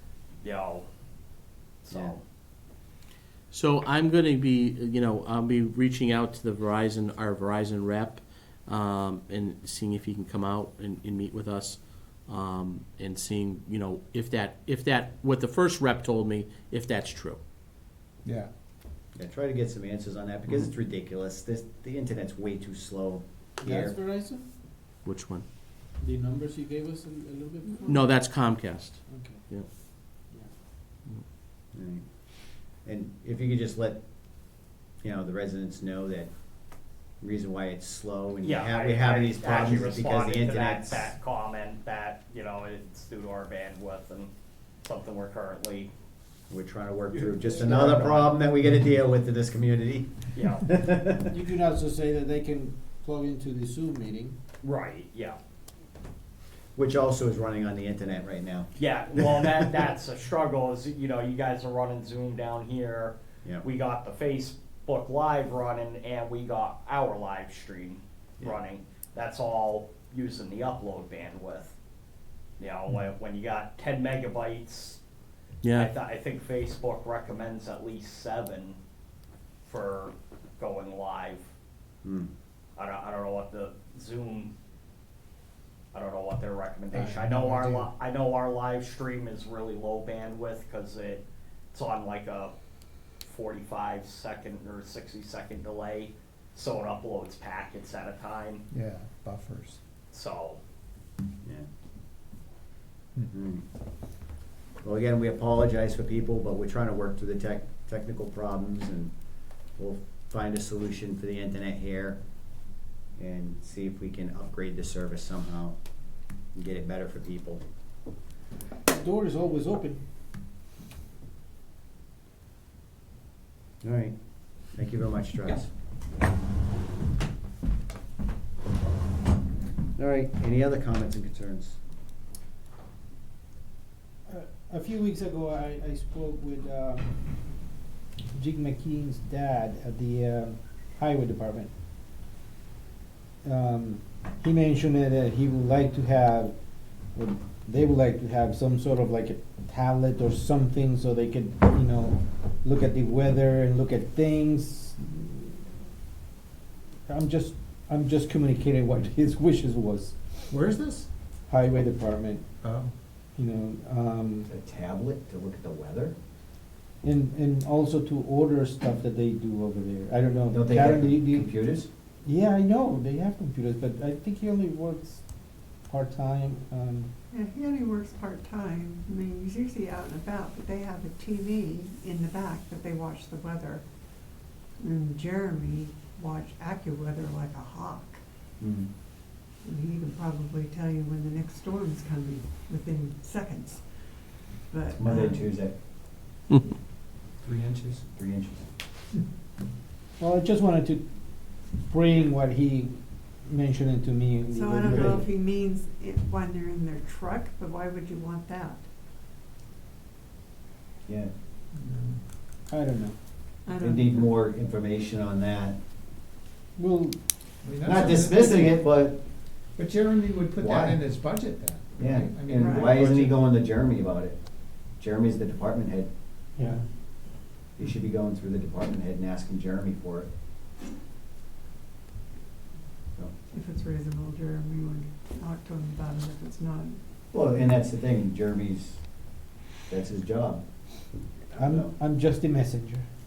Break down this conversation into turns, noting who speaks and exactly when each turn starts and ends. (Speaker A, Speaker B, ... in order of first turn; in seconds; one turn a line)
Speaker A: 0.4-0.8
Speaker B: 1.9-2.1
Speaker C: 3.5-17.4
Speaker D: 18.2-18.5
Speaker B: 19.1-24.0
Speaker E: 23.6-24.4
Speaker C: 25.0-25.4
Speaker E: 26.0-28.1
Speaker C: 27.9-29.7
Speaker E: 29.1-29.4
Speaker B: 31.8-32.0
Speaker B: 32.8-34.0
Speaker B: 35.0-36.3
Speaker B: 37.2-41.1
Speaker A: 38.5-39.3
Speaker A: 40.0-40.7
Speaker A: 41.6-44.3
Speaker A: 44.9-45.9
Speaker B: 46.5-51.2
Speaker E: 47.6-48.1
Speaker E: 51.2-54.4
Speaker A: 54.6-55.3
Speaker B: 56.8-59.9
Speaker A: 58.8-71.7
Speaker A: 72.8-75.0
Speaker C: 75.6-75.9
Speaker A: 75.8-78.8
Speaker A: 79.7-81.5
Speaker B: 82.0-82.3
Speaker A: 82.8-84.5
Speaker A: 85.9-92.5
Speaker D: 86.9-88.0
Speaker A: 93.2-98.6
Speaker D: 98.7-99.8
Speaker A: 100.1-100.6
Speaker B: 103.3-103.6
Speaker B: 104.8-109.1
Speaker B: 109.8-112.2
Speaker B: 113.2-115.8
Speaker B: 116.5-117.6
Speaker E: 118.9-120.0
Speaker B: 123.8-124.2
Speaker B: 124.7-125.7
Speaker B: 130.0-131.8
Speaker E: 134.3-137.1
Speaker E: 138.3-141.7
Speaker E: 143.4-146.6
Speaker E: 147.2-155.7
Speaker E: 157.1-160.2
Speaker D: 160.5-161.1
Speaker E: 161.5-162.4
Speaker D: 162.6-162.9
Speaker E: 163.3-164.5
Speaker B: 164.5-166.2
Speaker E: 167.0-171.5
Speaker B: 170.5-171.9
Speaker E: 172.2-175.2
Speaker E: 175.9-177.1
Speaker F: 177.3-183.8
Speaker F: 184.8-188.2
Speaker B: 188.6-188.9
Speaker F: 189.6-193.8
Speaker F: 194.7-195.5
Speaker B: 195.0-195.7
Speaker B: 197.4-198.7
Speaker E: 200.2-201.1
Speaker E: 201.9-205.3
Speaker F: 204.5-208.8
Speaker B: 211.1-211.3
Speaker D: 211.8-212.2
Speaker E: 212.7-213.2
Speaker F: 213.7-214.3
Speaker B: 213.8-215.8
Speaker E: 216.8-217.2
Speaker D: 217.6-218.8
Speaker B: 217.8-219.2
Speaker D: 219.8-223.4
Speaker B: 220.6-221.0
Speaker B: 222.0-224.4
Speaker F: 222.5-223.0
Speaker B: 225.0-226.1
Speaker E: 226.6-226.8
Speaker B: 227.8-230.3
Speaker F: 233.5-237.0
Speaker B: 237.3-239.0
Speaker B: 239.9-240.6
Speaker E: 241.5-243.1
Speaker B: 241.6-241.9